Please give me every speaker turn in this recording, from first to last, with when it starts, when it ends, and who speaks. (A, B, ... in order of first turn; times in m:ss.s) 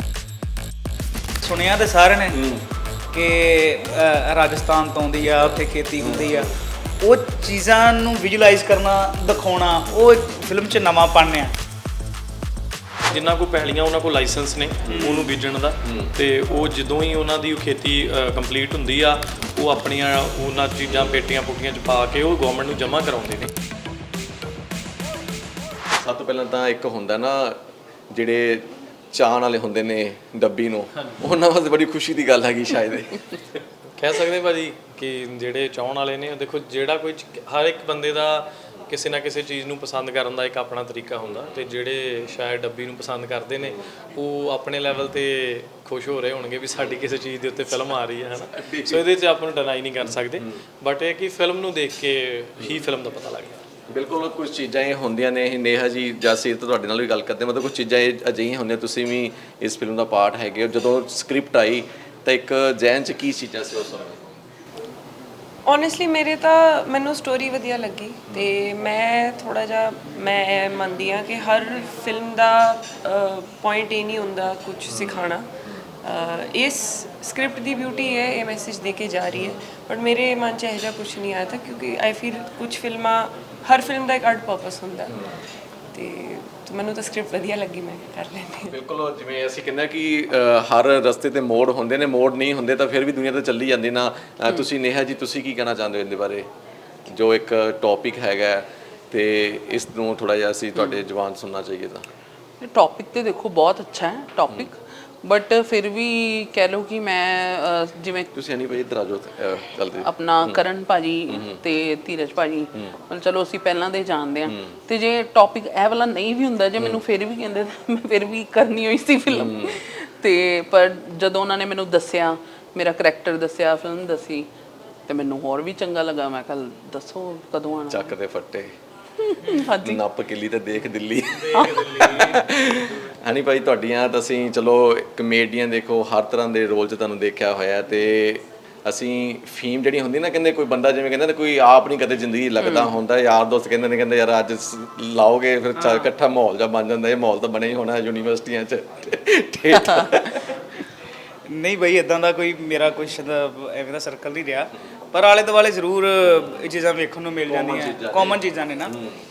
0:01.4-0:02.4 A
0:02.3-0:02.6 B
0:03.1-0:11.5 A
0:06.0-0:06.5 B
0:13.1-0:23.5 C
0:14.9-0:15.3 A
0:15.8-0:16.1 B
0:20.9-0:21.2 B
0:26.0-0:27.6 B
0:28.1-0:33.6 B
0:34.0-0:53.6 C
0:48.5-0:49.0 B
0:53.9-1:04.2 B
1:05.7-1:15.5 D
1:14.9-1:15.3 B
1:16.0-1:25.2 D
1:25.1-1:25.4 B
1:25.9-1:28.8 D
1:28.7-1:36.4 B
1:37.1-1:42.1 B
1:42.6-1:48.3 E
1:48.3-1:50.6 B
1:50.0-2:04.5 E
1:51.3-1:51.6 B
1:54.4-1:54.7 B
1:59.3-1:59.8 B
2:05.1-2:08.1 E
2:07.9-2:08.7 B
2:09.2-2:10.0 E
2:09.8-2:30.6 B
2:11.5-2:12.3 E
2:11.7-2:12.4 A
2:22.6-2:22.9 E
2:25.8-2:26.1 A
2:31.5-2:38.9 A
2:37.5-2:39.2 B